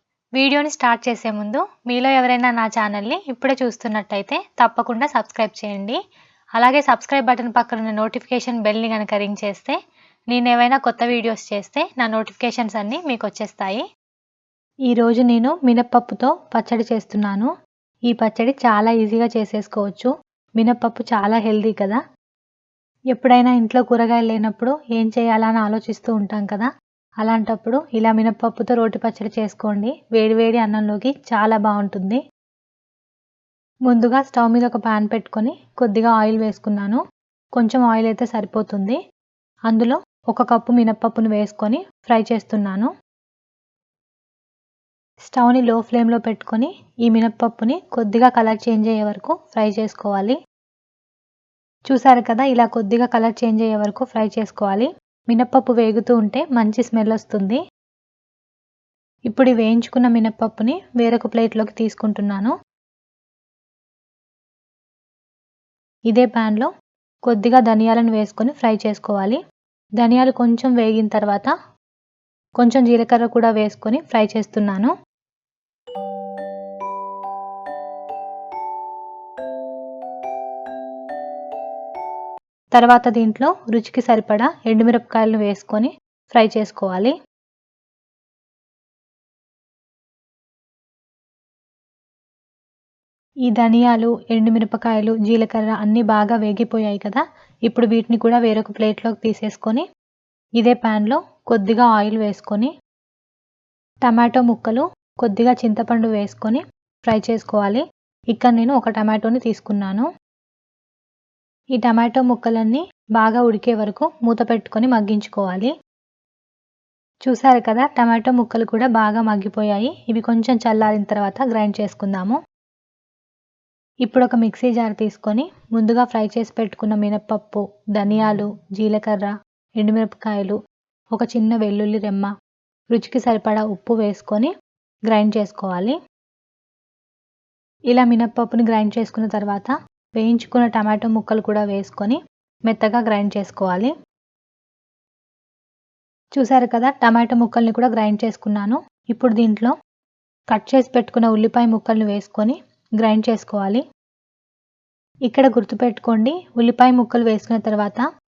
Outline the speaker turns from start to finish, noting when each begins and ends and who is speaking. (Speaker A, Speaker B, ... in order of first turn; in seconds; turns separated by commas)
Speaker A: 0.4-6.0, Speaker A: 6.6-9.8, Speaker A: 10.3-13.8, Speaker A: 14.9-17.5, Speaker A: 18.1-22.0, Speaker A: 23.1-26.7, Speaker A: 27.2-32.2, Speaker A: 33.9-37.0, Speaker A: 37.6-39.0, Speaker A: 39.7-42.9, Speaker A: 45.3-50.4, Speaker A: 51.9-57.6, Speaker A: 59.3-62.5, Speaker A: 66.1-66.7, Speaker A: 67.3-69.4, Speaker A: 70.0-71.5, Speaker A: 72.6-74.9, Speaker A: 82.8-87.1, Speaker A: 93.5-99.8, Speaker A: 100.6-102.7, Speaker A: 104.0-110.1, Speaker A: 111.8-115.7, Speaker A: 117.3-122.4, Speaker A: 124.1-130.6, Speaker A: 131.2-132.3, Speaker A: 132.9-134.5, Speaker A: 135.1-136.0, Speaker A: 137.9-142.2, Speaker A: 142.7-143.9, Speaker A: 146.4-149.7, Speaker A: 150.5-153.8, Speaker A: 155.3-158.0